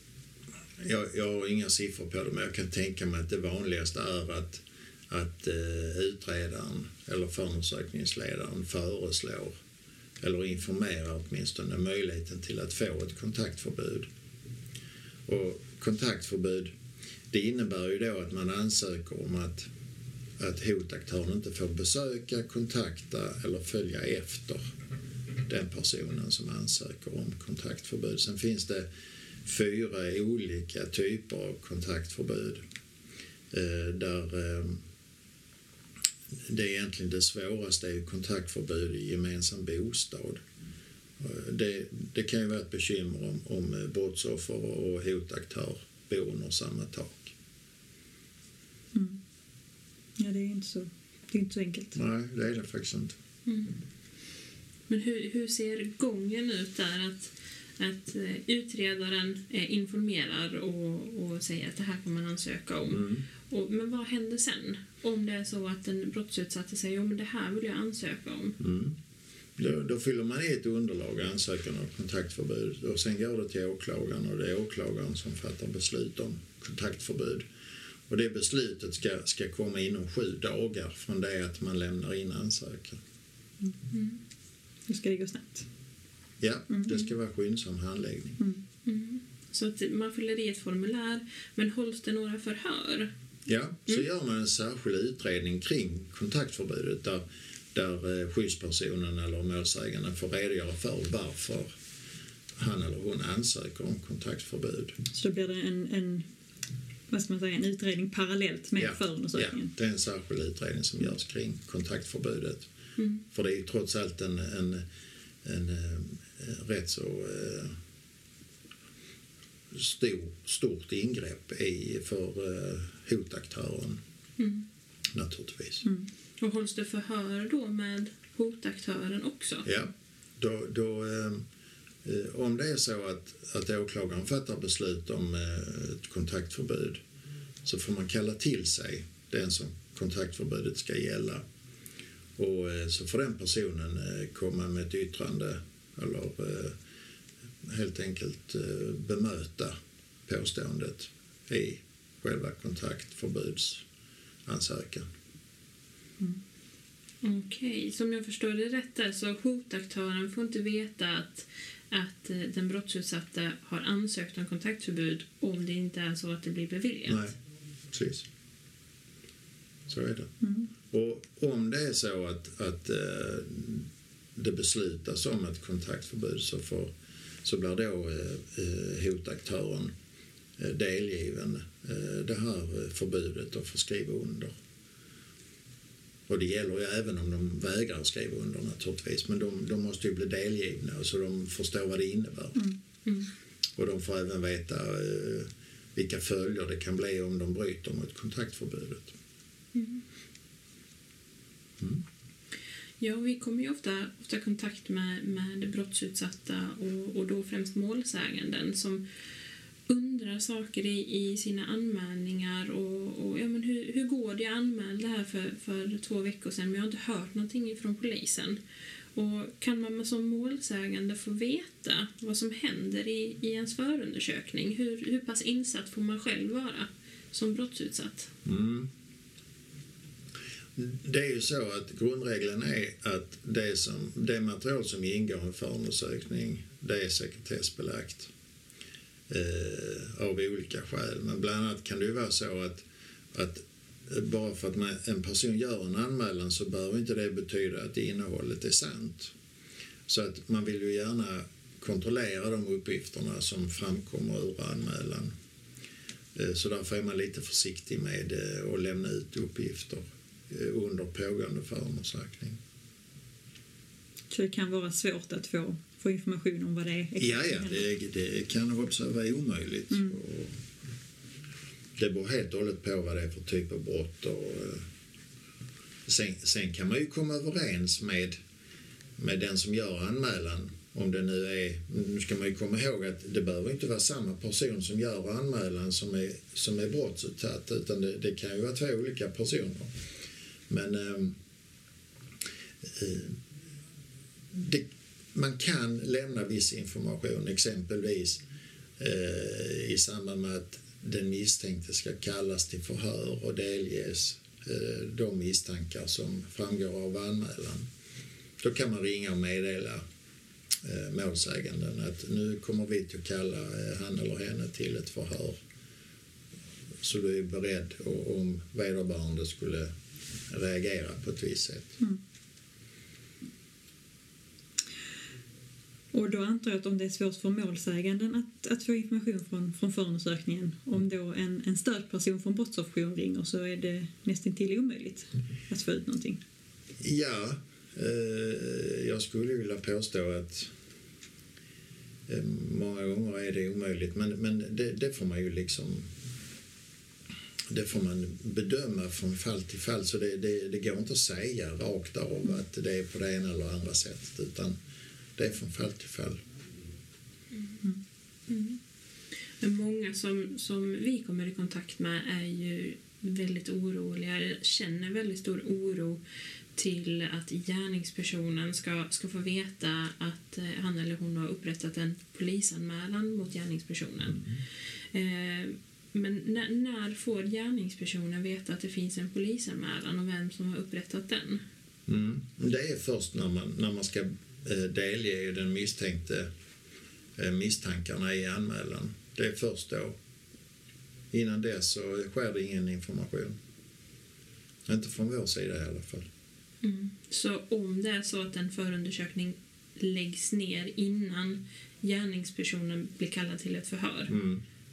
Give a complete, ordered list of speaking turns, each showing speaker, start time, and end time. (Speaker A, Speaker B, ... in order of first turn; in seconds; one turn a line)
Speaker A: 0.8-9.5
Speaker A: 10.2-14.1
Speaker A: 15.3-16.7
Speaker A: 17.3-19.7
Speaker A: 20.4-24.6
Speaker A: 25.5-28.9
Speaker A: 29.4-32.6
Speaker A: 33.5-34.8
Speaker A: 36.5-40.4
Speaker A: 41.2-47.3
Speaker B: 48.9-49.2
Speaker B: 50.2-52.0
Speaker A: 52.0-53.2
Speaker C: 53.5-53.8
Speaker C: 54.9-68.6
Speaker A: 62.9-63.2
Speaker A: 68.6-69.0
Speaker A: 69.6-77.5
Speaker A: 78.1-83.0
Speaker C: 83.9-84.2
Speaker B: 84.9-85.7
Speaker A: 86.4-88.4
Speaker C: 88.8-93.1
Speaker A: 93.5-101.7
Speaker A: 102.6-105.0
Speaker B: 105.1-106.3
Speaker B: 107.1-109.7
Speaker A: 108.8-112.7
Speaker C: 113.0-113.2
Speaker A: 113.3-114.8
Speaker A: 115.4-117.7
Speaker A: 119.7-124.0
Speaker C: 124.4-124.6
Speaker A: 125.1-125.8
Speaker B: 125.8-126.1
Speaker C: 126.4-129.7
Speaker A: 129.7-131.4
Speaker A: 132.0-137.0
Speaker A: 137.7-141.4
Speaker A: 142.4-146.8
Speaker A: 147.6-149.8
Speaker A: 150.3-153.8
Speaker A: 154.5-155.1
Speaker C: 157.2-167.3
Speaker A: 167.1-167.3
Speaker A: 167.9-168.3
Speaker A: 169.9-170.3
Speaker B: 170.4-170.7
Speaker A: 170.9-176.9
Speaker A: 177.4-179.9
Speaker A: 180.6-184.5
Speaker A: 186.3-192.6
Speaker A: 193.8-199.1
Speaker C: 199.7-200.0
Speaker C: 203.0-209.0
Speaker C: 209.9-218.6
Speaker C: 219.2-228.3
Speaker A: 228.4-228.9
Speaker A: 230.8-238.3
Speaker A: 239.3-249.3
Speaker A: 250.1-255.3
Speaker A: 256.4-262.6
Speaker B: 264.3-267.9
Speaker A: 267.2-270.5
Speaker B: 269.9-270.2
Speaker A: 272.0-274.8
Speaker A: 276.1-278.4
Speaker A: 279.2-289.9
Speaker A: 290.7-291.4
Speaker A: 292.8-293.4
Speaker A: 294.5-298.4
Speaker A: 299.0-307.9
Speaker A: 308.6-310.0
Speaker A: 310.8-315.6
Speaker A: 317.0-319.9
Speaker A: 320.5-321.9
Speaker B: 326.1-336.4
Speaker A: 337.0-340.7
Speaker A: 342.3-346.1
Speaker A: 347.7-354.8
Speaker A: 355.4-356.4
Speaker C: 358.5-358.8
Speaker C: 359.6-366.2
Speaker C: 366.8-374.5
Speaker C: 375.1-381.6
Speaker A: 382.1-386.5
Speaker A: 387.4-390.2
Speaker A: 391.3-393.6
Speaker A: 394.9-396.3
Speaker C: 396.8-404.3
Speaker A: 404.3-404.6